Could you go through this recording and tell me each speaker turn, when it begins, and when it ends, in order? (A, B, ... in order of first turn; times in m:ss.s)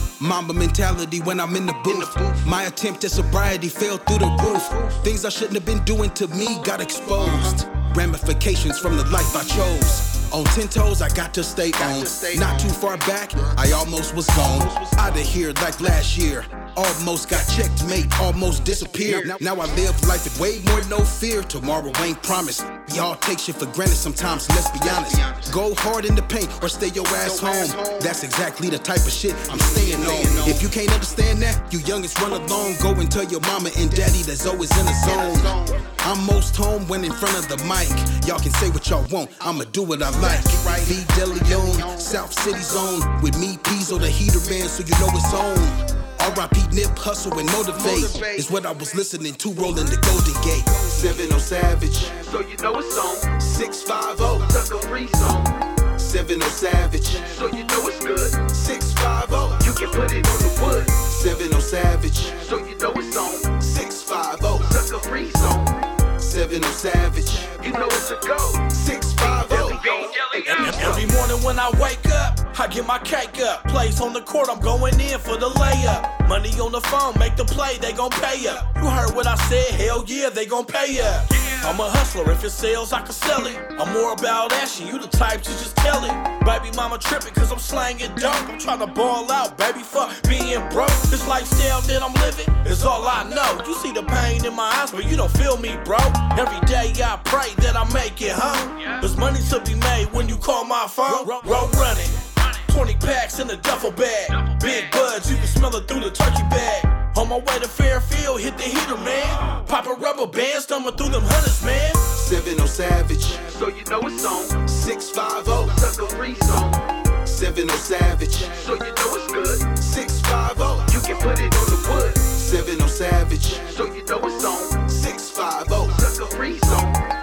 0:00.2-0:52.3 A
0:01.9-0:02.2 B
0:07.2-0:07.5 B
0:11.8-0:13.6 B
0:14.4-0:15.4 B
0:19.0-0:19.4 B
0:24.8-0:25.5 B
0:27.2-0:28.2 B
0:29.5-0:30.6 B
0:35.0-0:35.9 B
0:40.2-0:42.2 B
0:47.8-0:48.5 B
0:52.2-0:53.4 B
0:53.4-0:54.7 A
0:54.4-0:55.7 B
0:55.8-0:57.5 A
0:57.3-0:58.5 B
0:58.4-1:00.1 A
0:59.6-1:01.0 B
1:00.9-1:02.6 A
1:02.4-1:03.6 B
1:03.5-1:05.0 A
1:04.6-1:05.9 B
1:06.2-1:07.8 A
1:07.6-1:11.0 B
1:08.6-1:10.0 A
1:09.6-1:52.1 C
1:52.1-1:53.6 A
1:53.5-1:54.6 B
1:54.5-1:56.0 A
1:55.6-1:57.0 B
1:57.1-1:58.8 A
1:58.6-1:59.8 B
1:59.7-2:01.1 A
2:00.9-2:02.3 B
2:02.2-2:03.9 A
2:03.7-2:04.9 B
2:04.8-2:06.1 A
2:05.9-2:07.1 B